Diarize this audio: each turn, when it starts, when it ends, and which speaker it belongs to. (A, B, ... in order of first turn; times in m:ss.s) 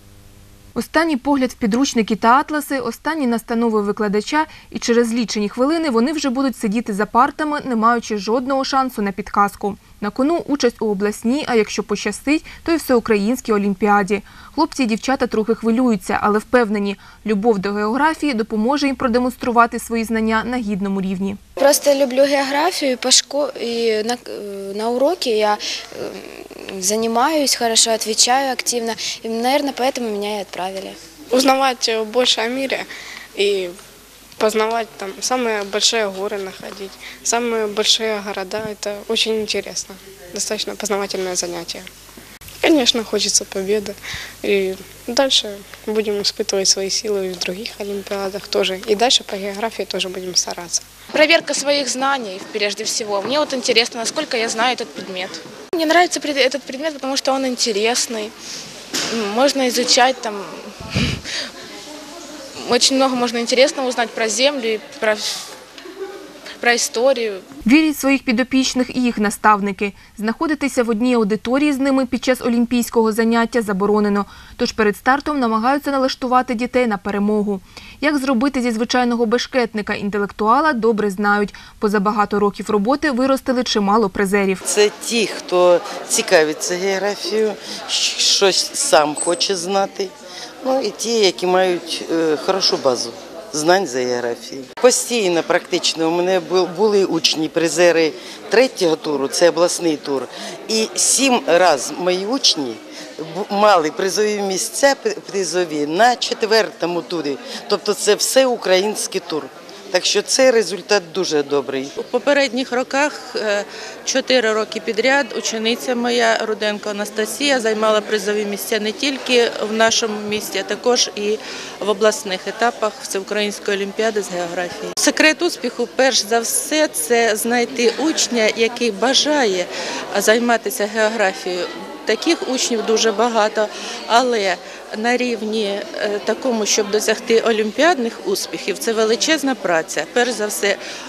0:00.7-0:21.4 A
0:21.6-0:31.0 B
0:31.3-0:33.7 C
0:34.4-0:41.8 C
0:42.6-0:50.8 C
0:51.1-0:58.3 D
0:59.1-1:00.7 D
1:02.6-1:05.5 D
1:06.6-1:07.4 D
1:07.6-1:24.6 A
1:24.7-1:30.1 E
1:30.6-1:51.9 E
1:52.0-2:20.8 F